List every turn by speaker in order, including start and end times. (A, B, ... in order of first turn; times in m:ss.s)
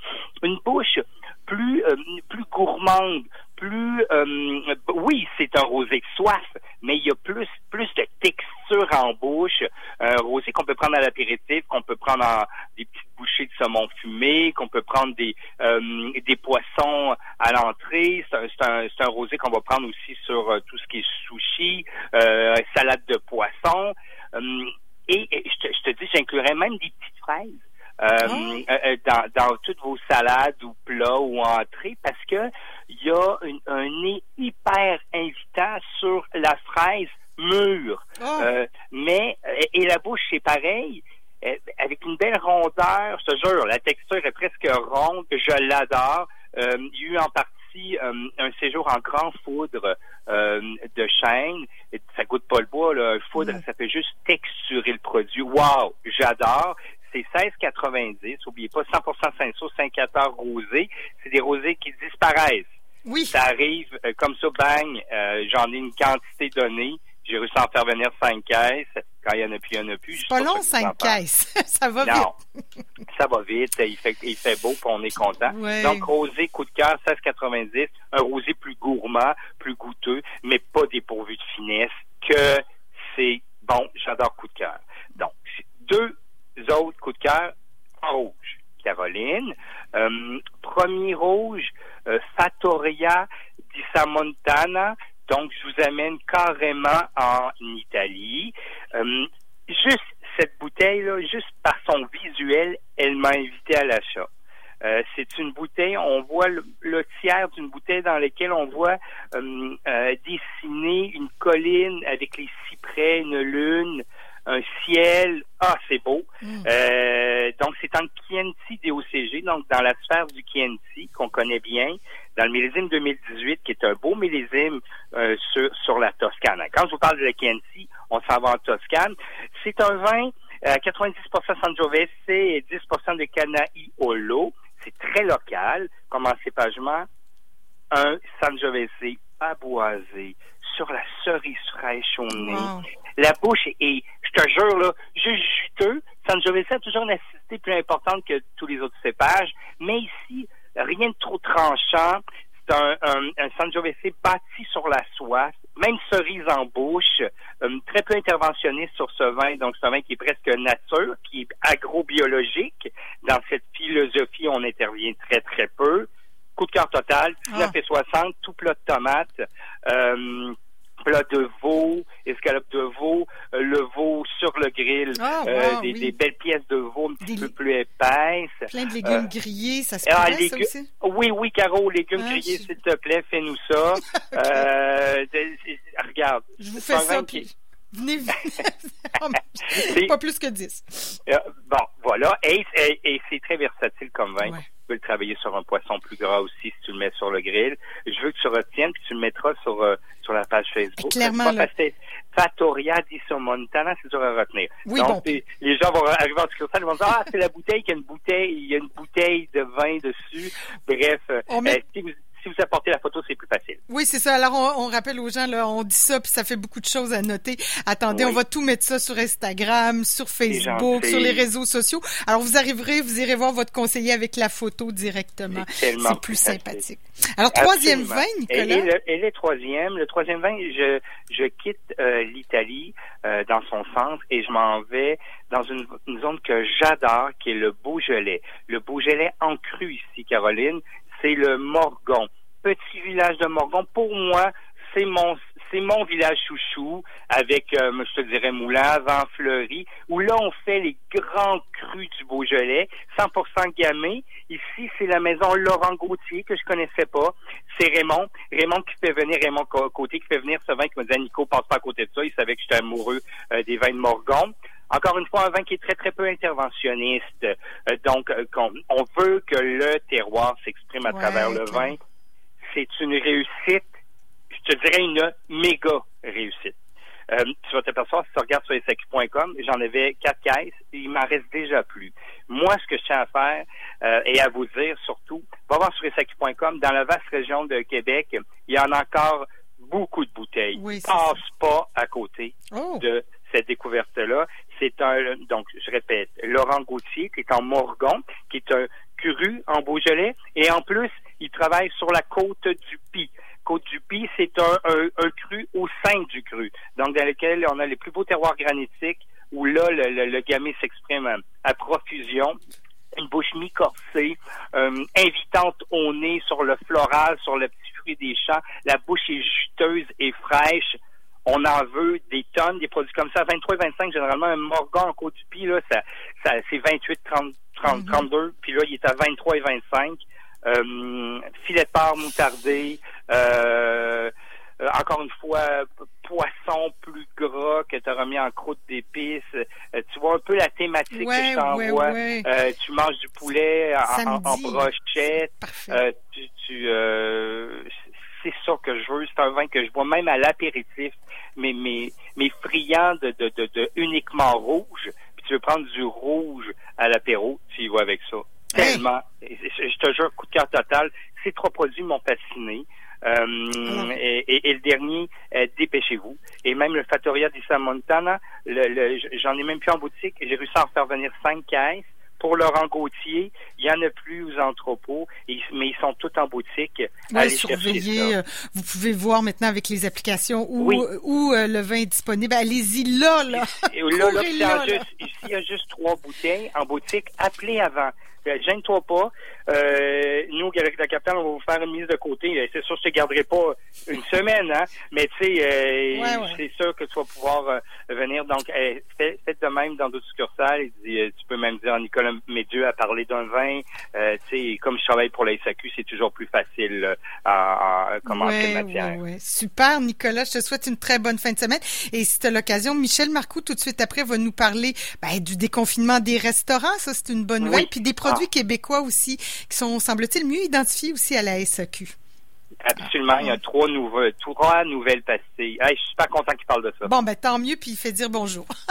0:00.4-1:02.7 A
0:28.2-0:28.6 B
0:38.2-0:38.5 B
0:53.4-0:53.6 B
1:03.0-1:03.3 B
1:03.3-1:11.2 A
1:10.2-1:12.3 B
1:12.0-1:12.3 A
1:13.1-1:26.1 A
1:15.5-1:16.1 B
1:26.6-1:44.3 A
1:44.8-2:17.0 A
1:56.4-1:56.7 B
2:17.9-2:50.5 A
2:22.3-2:22.8 B
2:47.5-2:47.7 B
2:51.0-2:59.2 A
2:55.2-2:56.1 B
2:57.2-2:57.5 B
2:58.7-3:00.9 B
3:00.0-3:07.4 A
3:02.2-3:02.6 B
3:04.1-3:04.6 B
3:06.6-3:11.2 B
3:09.7-3:10.1 A
3:11.2-3:33.8 A
3:21.0-3:21.7 B
3:24.8-3:25.2 B
3:31.5-3:31.8 B
3:33.9-3:48.9 B
3:38.1-3:38.4 A
3:40.5-3:41.5 A
3:45.5-3:46.8 A
3:47.5-4:32.0 A
4:31.0-4:31.9 B
4:32.7-4:33.8 A
4:34.5-4:36.7 A
4:37.3-5:12.6 A
4:50.8-4:51.4 B
4:52.7-4:53.0 B
5:13.1-6:18.4 A
5:27.9-5:28.2 B
5:41.1-5:42.4 B
5:44.0-5:44.9 B
5:45.5-5:46.0 B
5:58.7-5:59.0 B
6:03.8-6:04.1 B
6:17.3-6:25.1 B
6:20.8-6:21.1 A
6:23.5-6:49.2 A
6:36.1-6:36.6 B
6:48.2-7:02.1 B
6:57.6-6:58.4 A
7:02.8-7:07.1 A
7:07.0-7:08.7 B